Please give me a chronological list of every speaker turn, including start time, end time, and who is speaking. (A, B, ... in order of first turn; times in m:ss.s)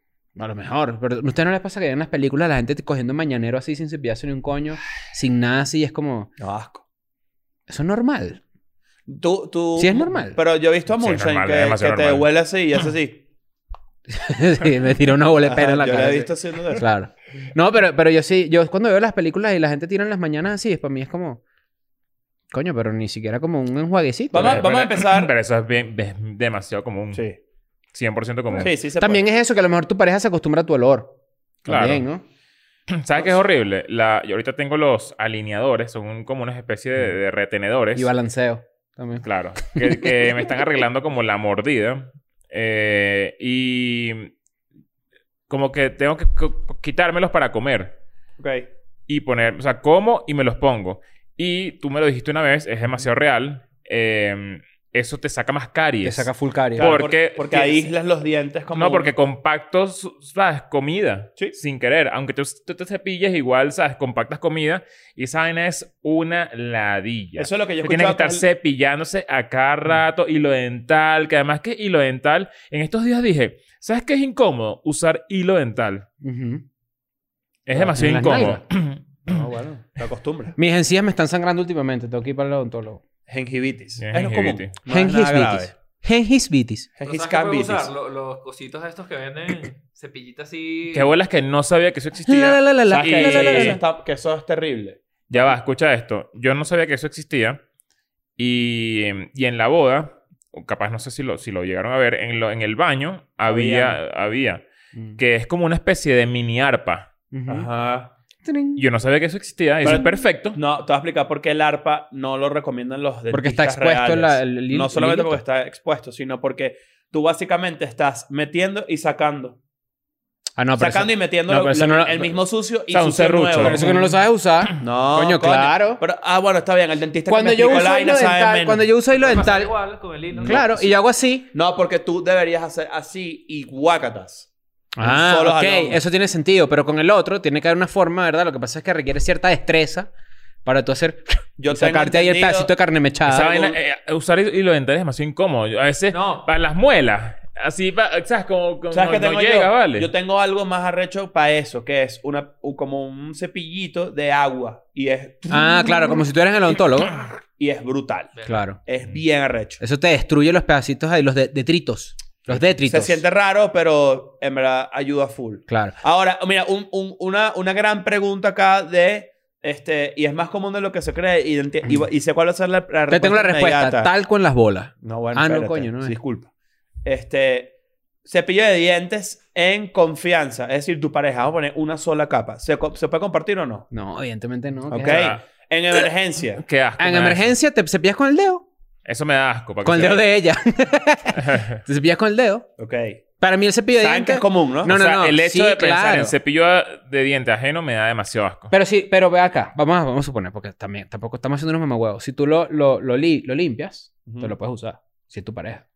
0:00.4-0:06.3 A
0:06.4-0:06.8 B
0:07.7-0:08.4 A
0:09.1-0:13.2 B
0:09.8-0:10.4 A
0:10.9-0:12.3 C
0:14.1-0:21.4 A
0:15.4-0:16.8 B
0:22.5-0:24.6 A
0:24.3-0:25.3 B
0:24.4-0:27.2 C
0:27.1-0:27.4 B
0:27.9-0:28.7 C
0:28.5-0:29.2 B
0:29.0-0:31.1 A
0:31.6-0:32.0 C
0:31.6-0:32.2 A
0:32.9-0:38.1 C
0:37.9-0:40.2 A
0:39.2-0:44.3 C
0:45.5-0:48.0 C
0:48.4-0:48.7 B
0:49.1-0:57.9 C
0:56.0-0:57.0 A
0:56.8-0:59.1 B
0:58.7-1:16.0 C
1:07.4-1:08.4 B
1:16.2-1:16.6 A
1:17.7-1:19.4 C
1:17.8-1:18.6 A
1:19.2-1:20.5 B
1:20.6-1:23.0 A
1:23.3-1:25.7 B
1:24.0-1:24.7 C
1:24.9-1:26.9 A
1:27.0-1:27.9 B
1:27.0-1:31.1 D
1:30.9-1:33.8 C
1:32.2-1:33.8 A
1:32.9-1:35.5 B
1:35.3-1:37.6 C
1:38.4-1:44.6 C
1:43.4-1:44.0 B
1:45.2-1:47.1 C
1:47.3-1:47.7 A
1:47.5-1:48.1 B
1:48.4-1:48.8 A
1:48.8-1:50.6 C
1:49.8-1:59.6 B
1:53.3-1:55.4 A
2:00.6-2:02.3 A
2:00.8-2:04.0 B
2:02.9-2:04.1 C
2:03.6-2:06.0 A
2:04.8-2:08.9 B
2:07.3-2:09.7 A
2:09.1-2:10.8 D
2:10.3-2:10.8 B
2:10.4-2:11.5 A
2:11.5-2:14.5 B
2:15.0-2:20.1 A
2:15.0-2:16.0 B
2:20.6-2:23.6 A
2:21.6-2:22.7 B
2:23.2-2:30.1 C
2:23.5-2:23.7 B
2:26.1-2:26.5 D
2:28.9-2:36.2 B
2:35.5-2:37.1 A
2:37.6-2:39.8 B
2:38.3-2:38.6 D
2:38.4-2:38.8 A
2:39.8-2:43.2 A
2:42.5-2:54.1 B
2:45.7-2:45.9 A
2:53.1-2:56.1 A
2:55.0-2:56.5 B
2:57.0-2:57.7 B
2:58.2-3:03.9 B
3:03.9-3:05.3 A
3:04.9-3:06.6 B
3:05.0-3:05.4 C
3:06.6-3:07.5 C
3:07.0-3:08.6 A
3:09.0-3:10.2 C
3:09.8-3:12.6 A
3:11.4-3:11.8 C
3:12.8-3:13.2 B
3:13.4-3:16.3 A
3:14.0-3:14.9 B
3:14.8-3:18.7 C
3:18.7-3:25.8 A
3:24.3-3:24.5 B